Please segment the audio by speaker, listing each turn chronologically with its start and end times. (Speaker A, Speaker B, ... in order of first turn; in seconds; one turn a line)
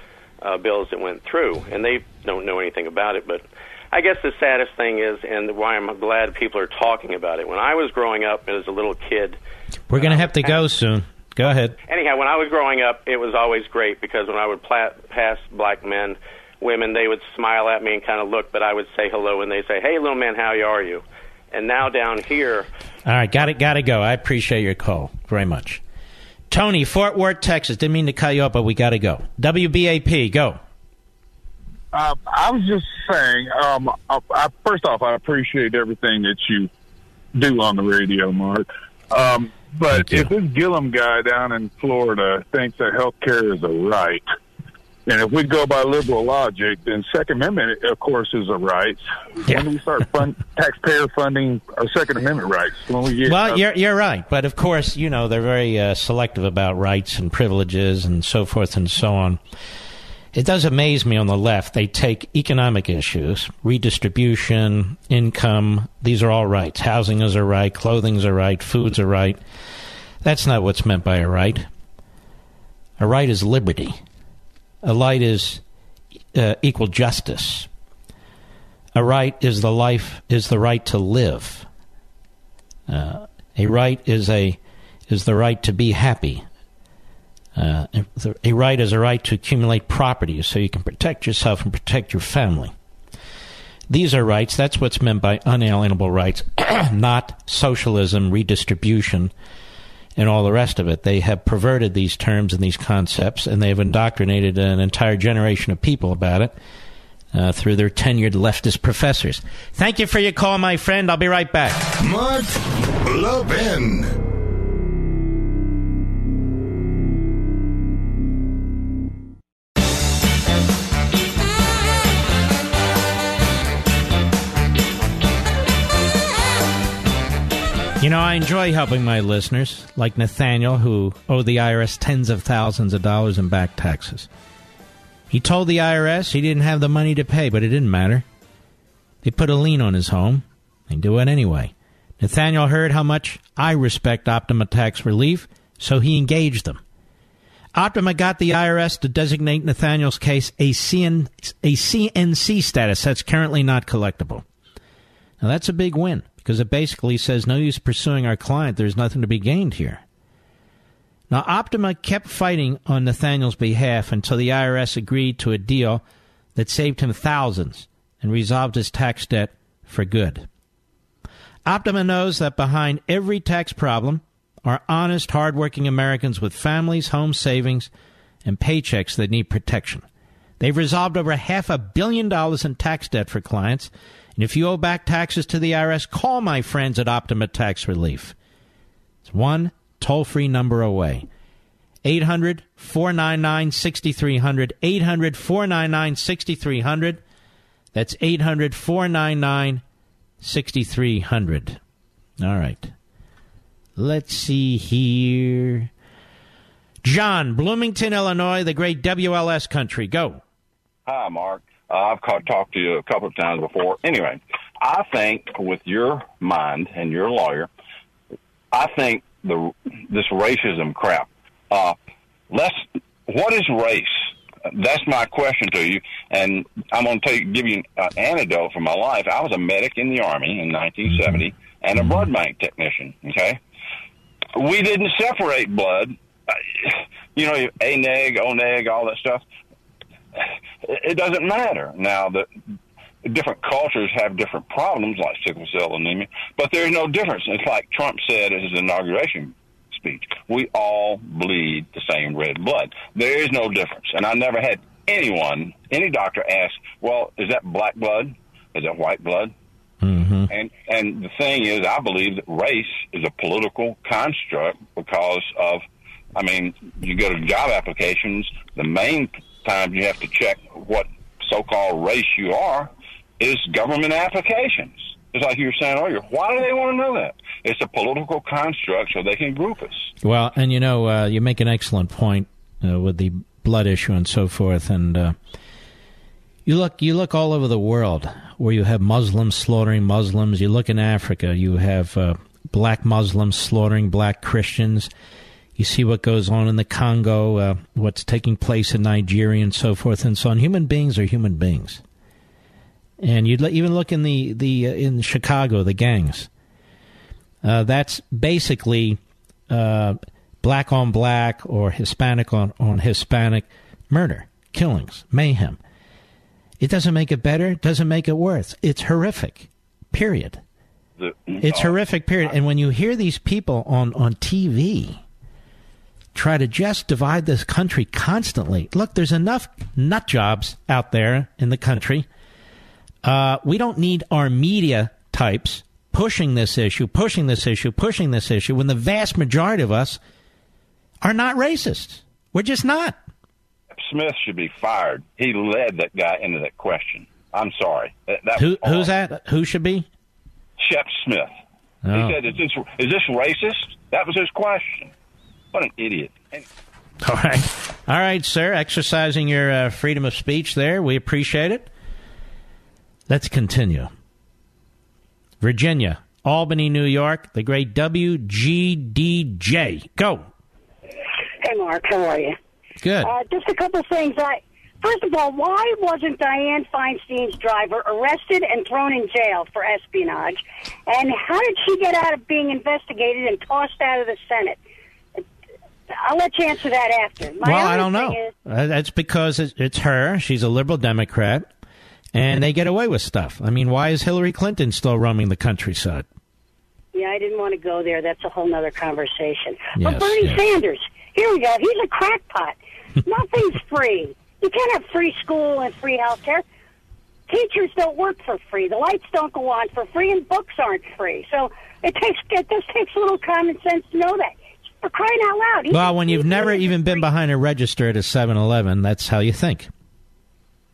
Speaker A: 0.4-9.4
Speaker B: 9.9-11.7
Speaker A: 9.9-10.6
Speaker A: 11.8-22.7
Speaker B: 23.1-25.8
Speaker B: 26.5-30.6
Speaker C: 31.9-36.7
Speaker C: 37.3-44.2
Speaker B: 39.9-40.3
Speaker C: 45.1-53.6
Speaker B: 53.2-59.4
Speaker B: 60.3-69.4
Speaker B: 70.2-71.7
Speaker B: 73.0-74.0
Speaker B: 74.8-75.6
Speaker B: 76.3-77.7
Speaker B: 78.9-81.7
Speaker B: 82.9-86.4
Speaker B: 87.5-92.7
Speaker B: 93.9-99.3
Speaker B: 100.2-106.5
Speaker B: 107.3-111.8
Speaker D: 112.0-114.1
Speaker B: 128.0-134.3
Speaker B: 135.3-138.2
Speaker B: 139.2-146.8
Speaker B: 147.7-154.4
Speaker B: 155.4-160.0
Speaker B: 161.3-166.0
Speaker B: 166.6-170.5
Speaker B: 171.7-177.9
Speaker B: 178.4-180.1
Speaker B: 180.6-188.3
Speaker B: 189.2-191.2
Speaker B: 192.0-197.2
Speaker B: 197.9-199.8
Speaker B: 200.4-201.8
Speaker B: 202.4-202.9
Speaker B: 203.9-205.9
Speaker B: 207.0-210.4
Speaker E: 211.1-217.7
Speaker E: 218.7-222.0
Speaker E: 222.5-233.6
Speaker E: 234.5-236.2
Speaker E: 236.7-239.4
Speaker E: 240.8-242.4
Speaker E: 243.2-259.5
Speaker B: 260.0-260.5
Speaker E: 260.5-265.8
Speaker E: 266.3-280.1
Speaker B: 280.2-285.3
Speaker B: 286.6-295.1
Speaker B: 295.8-302.0
Speaker B: 303.2-306.5
Speaker B: 307.6-309.2
Speaker B: 309.7-315.8
Speaker B: 316.8-320.6
Speaker E: 321.2-322.0
Speaker B: 321.6-325.2
Speaker B: 326.3-332.3
Speaker B: 333.2-340.2
Speaker B: 341.2-343.2
Speaker E: 343.9-349.1
Speaker B: 348.6-350.1
Speaker E: 350.8-351.5
Speaker B: 352.1-352.4
Speaker E: 352.1-355.1
Speaker E: 355.7-356.6
Speaker B: 357.2-361.9
Speaker B: 363.3-364.1
Speaker B: 365.6-370.5
Speaker F: 371.6-372.6
Speaker B: 373.0-373.3
Speaker F: 373.2-384.8
Speaker F: 386.2-388.5
Speaker B: 387.6-391.7
Speaker B: 392.3-396.3
Speaker F: 397.1-406.6
Speaker B: 399.9-400.6
Speaker F: 407.5-417.2
Speaker B: 415.9-419.9